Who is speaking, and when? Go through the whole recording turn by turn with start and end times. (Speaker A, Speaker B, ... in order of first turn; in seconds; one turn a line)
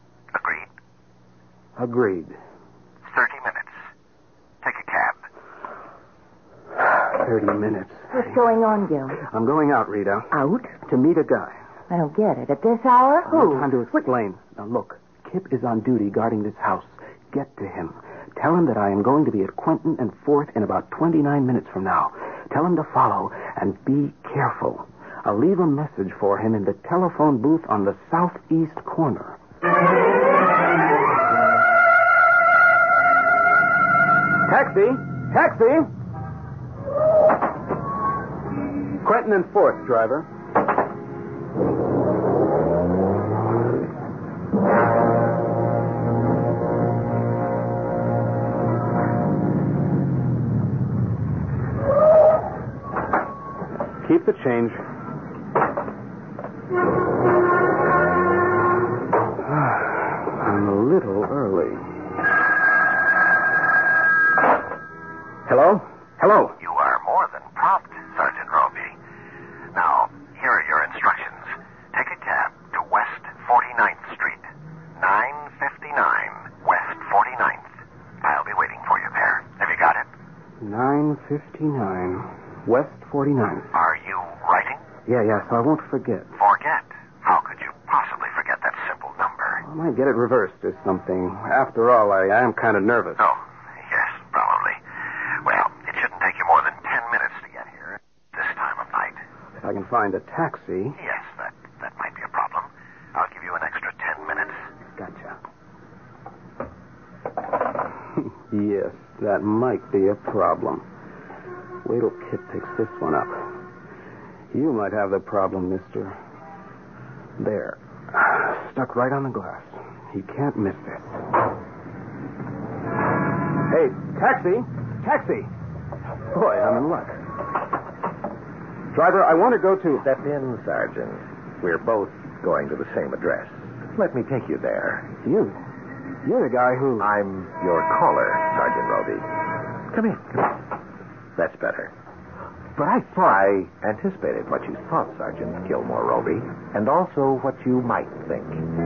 Speaker A: 0.3-0.7
Speaker B: 1.8-2.4
Speaker A: 3.1-3.8
Speaker A: 4.6-5.2
Speaker B: 6.8-8.4
Speaker C: 8.1-9.2
Speaker B: 9.2-11.6
Speaker C: 10.3-10.7
Speaker C: 11.9-14.1
Speaker B: 13.3-29.4
Speaker B: 34.5-35.9
Speaker B: 39.0-40.3
Speaker B: 54.0-54.8
Speaker B: 59.5-61.9
Speaker B: 65.5-66.6
Speaker A: 66.6-69.0
Speaker A: 69.7-80.1
Speaker B: 80.6-83.7
Speaker A: 83.7-84.8
Speaker B: 85.1-86.3
Speaker A: 86.4-89.6
Speaker B: 89.6-93.2
Speaker A: 93.2-94.8
Speaker A: 95.4-99.2
Speaker B: 99.6-101.0
Speaker A: 101.0-104.6
Speaker B: 105.0-105.4
Speaker B: 108.5-110.8
Speaker B: 111.8-113.5
Speaker B: 114.5-116.2
Speaker B: 117.4-121.2
Speaker B: 123.7-125.5
Speaker B: 126.3-127.2
Speaker B: 128.9-130.1
Speaker D: 130.0-135.1
Speaker B: 135.2-135.6
Speaker B: 136.2-137.1
Speaker D: 137.0-140.7
Speaker D: 141.4-141.9
Speaker B: 142.8-143.3
Speaker D: 143.1-148.7